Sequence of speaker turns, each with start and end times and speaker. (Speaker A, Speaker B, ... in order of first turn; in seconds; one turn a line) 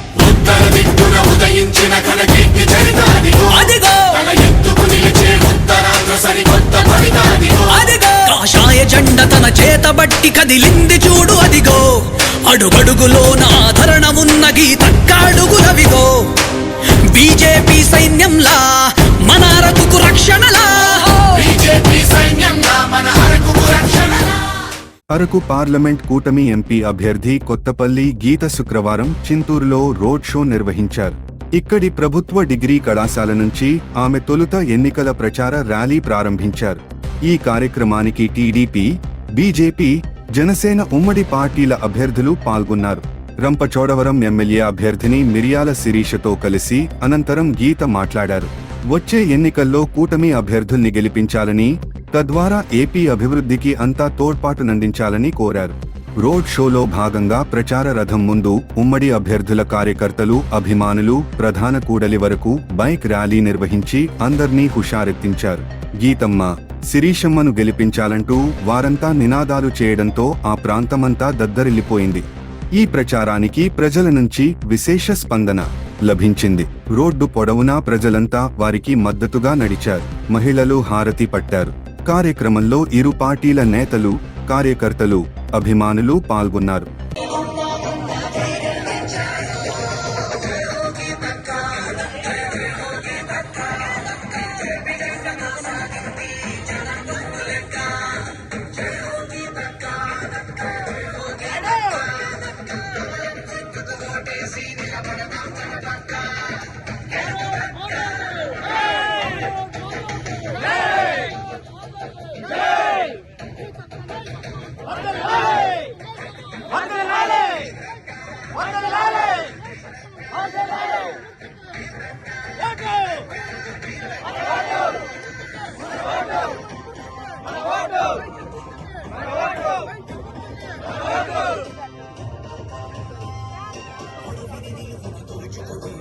Speaker A: 0.2-3.0
Speaker B: 2.9-4.6
Speaker A: 4.6-6.5
Speaker B: 5.3-5.7
Speaker B: 6.4-16.3
Speaker B: 17.0-21.8
Speaker A: 21.6-24.2
Speaker C: 25.1-86.9